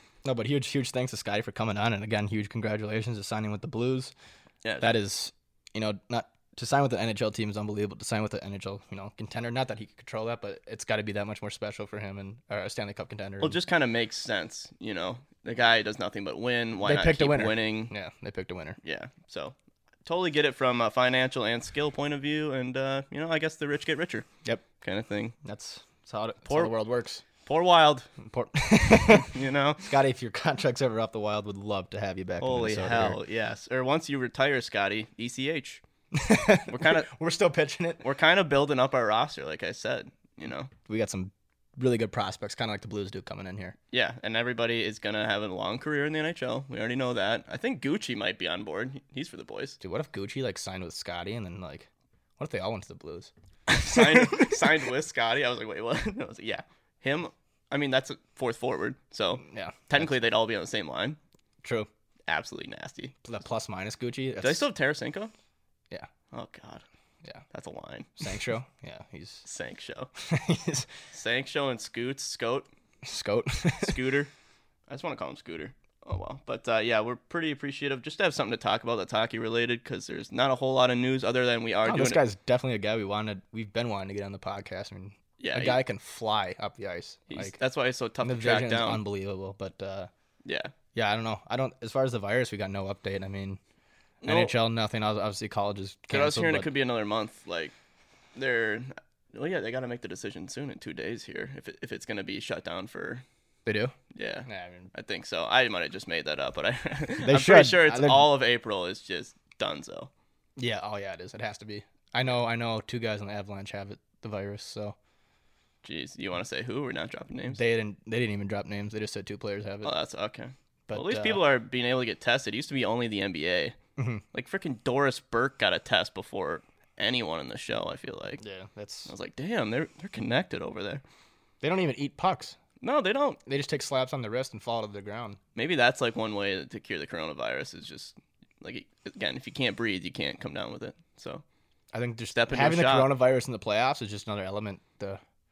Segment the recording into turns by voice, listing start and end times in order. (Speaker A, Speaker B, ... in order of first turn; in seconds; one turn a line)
Speaker A: 0.2-4.1
Speaker B: 4.6-4.9
Speaker A: 4.8-13.6
Speaker B: 13.4-17.9
Speaker A: 16.8-18.8
Speaker B: 18.8-24.3
Speaker B: 24.8-25.3
Speaker A: 25.4-27.2
Speaker B: 26.5-26.7
Speaker B: 27.4-28.1
Speaker A: 28.2-33.2
Speaker B: 29.2-30.0
Speaker B: 32.4-35.8
Speaker A: 36.1-38.0
Speaker B: 36.7-37.1
Speaker B: 38.0-40.7
Speaker A: 40.9-43.8
Speaker B: 43.9-49.8
Speaker A: 49.8-53.3
Speaker B: 53.7-61.2
Speaker A: 53.9-54.6
Speaker A: 59.5-60.1
Speaker A: 61.6-61.9
Speaker B: 62.3-63.1
Speaker A: 63.2-64.7
Speaker B: 64.4-65.3
Speaker B: 66.3-66.8
Speaker B: 67.5-68.1
Speaker A: 68.2-69.5
Speaker B: 69.5-70.1
Speaker A: 70.2-70.9
Speaker B: 71.1-72.7
Speaker A: 73.0-74.0
Speaker B: 73.8-74.3
Speaker B: 74.9-82.2
Speaker A: 81.8-87.6
Speaker B: 85.4-85.8
Speaker B: 87.3-89.0
Speaker A: 88.2-90.1
Speaker B: 90.5-90.7
Speaker A: 90.9-93.6
Speaker B: 94.2-94.5
Speaker A: 94.2-96.7
Speaker B: 96.1-97.7
Speaker B: 98.3-103.2
Speaker A: 103.7-104.9
Speaker B: 104.1-110.1
Speaker A: 107.2-108.3
Speaker A: 110.6-115.0
Speaker B: 115.8-117.6
Speaker A: 117.5-119.9
Speaker B: 119.8-123.8
Speaker A: 120.9-121.4
Speaker A: 124.0-124.2
Speaker B: 124.3-128.4
Speaker A: 128.4-129.1
Speaker B: 129.1-131.0
Speaker A: 131.6-132.6
Speaker B: 132.8-133.4
Speaker A: 133.5-135.4
Speaker B: 135.6-141.4
Speaker A: 141.9-145.2
Speaker B: 142.3-143.1